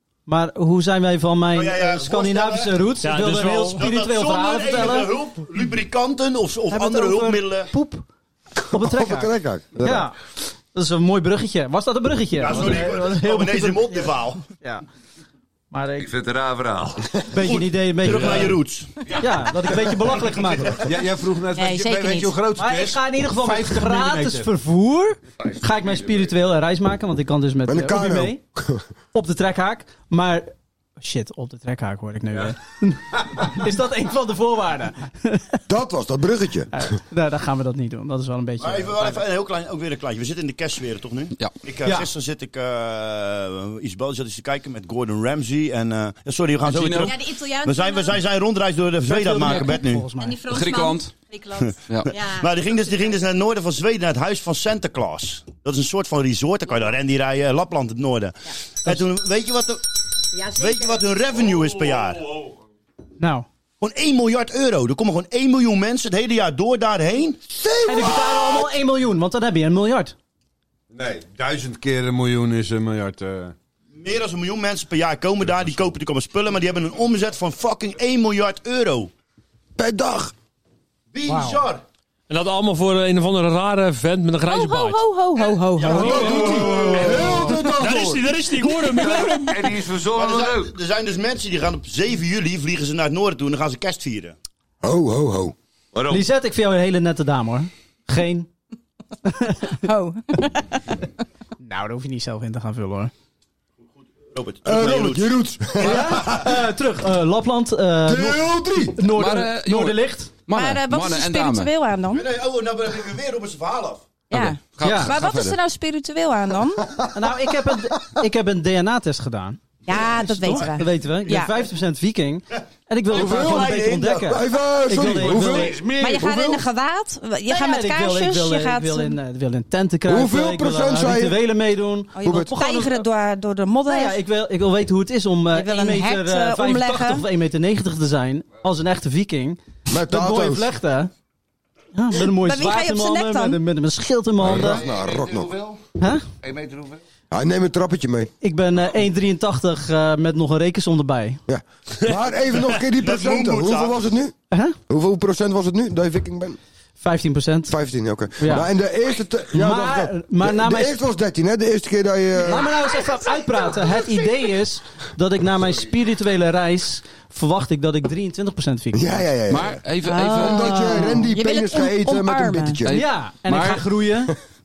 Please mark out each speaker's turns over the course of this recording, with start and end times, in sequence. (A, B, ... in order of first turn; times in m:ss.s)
0:00.3-0:05.1 A
0:01.5-0:02.8 B
0:03.0-0:03.9 C
0:03.8-0:07.7 B
0:06.7-0:08.0 A
0:08.7-0:10.2 A
0:08.7-0:10.1 D
0:10.7-0:14.8 A
0:12.4-0:14.4 B
0:15.7-0:16.1 A
0:16.0-0:17.2 E
0:17.3-0:18.6 A
0:17.4-0:19.0 B
0:19.1-0:20.8 A
0:20.8-0:24.5 F
0:21.5-0:22.4 G
0:22.6-0:28.4 A
0:25.4-0:26.3 E
0:27.7-0:28.8 D
0:29.1-0:35.6 A
0:35.7-0:36.7 D
0:36.7-0:39.2 A
0:38.6-0:50.0 B
0:46.6-0:47.1 H
0:46.9-0:48.2 G
0:49.1-0:50.4 A
0:50.2-0:53.1 G
0:50.5-0:51.1 H
0:51.6-0:59.8 B
1:00.4-1:00.9 G
1:00.5-1:02.4 B
1:03.2-1:03.5 A
1:03.8-1:07.4 B
1:07.5-1:08.6 D
1:07.8-1:10.1 A
1:10.9-1:13.5 F
1:14.0-1:19.1 B
1:19.8-1:20.3 D
1:21.1-1:21.8 B
1:21.3-1:21.6 A
1:22.3-1:25.0 C
1:24.4-1:26.4 G
1:25.8-1:27.4 B
1:25.8-1:28.3 D
1:25.9-1:29.7 C
1:28.8-1:30.7 E
1:30.2-1:34.3 B
1:34.8-1:35.5 D
1:35.9-1:36.2 E
1:36.1-1:38.5 A
1:39.3-1:39.7 A
1:39.8-1:40.9 G
1:41.6-1:43.1 A
1:44.3-1:45.3 B
1:44.6-1:46.5 D
1:45.8-1:50.3 A
1:45.9-1:46.3 B
1:48.0-1:49.0 D
1:49.1-1:51.7 H
1:50.5-1:52.2 G
1:52.1-1:54.0 B
1:54.3-1:56.9 G
1:54.3-1:55.6 H
1:54.8-1:55.1 A
1:57.1-2:05.8 A
1:59.8-2:01.5 G
2:03.1-2:04.4 B
2:03.2-2:03.6 D
2:04.3-2:06.6 D
2:05.1-2:06.5 E
2:06.0-2:09.2 G
2:07.4-2:13.0 A
2:10.1-2:11.4 D
2:12.2-2:14.2 G
2:12.2-2:12.5 D
2:13.9-2:21.1 A
2:15.5-2:17.2 G
2:19.9-2:20.7 D
2:21.9-2:24.8 A
2:22.3-2:23.6 G
2:24.4-2:25.5 D
2:24.4-2:25.8 E
2:26.0-2:26.2 A
2:26.4-2:27.0 E
2:27.3-2:28.3 D
2:28.4-2:31.4 A
2:31.5-2:34.3 D
2:33.0-2:34.0 B
2:34.5-2:34.8 A
2:34.9-2:36.6 D
2:37.0-2:37.8 A
2:37.7-2:42.7 D
2:38.4-2:38.7 A
2:39.5-2:41.0 A
2:42.4-2:49.3 A
2:48.9-2:49.8 D
2:49.5-2:50.9 H
2:50.0-2:52.8 G
2:50.3-2:52.9 D
2:50.7-2:51.2 A
2:52.8-2:53.8 H
2:52.9-2:54.3 A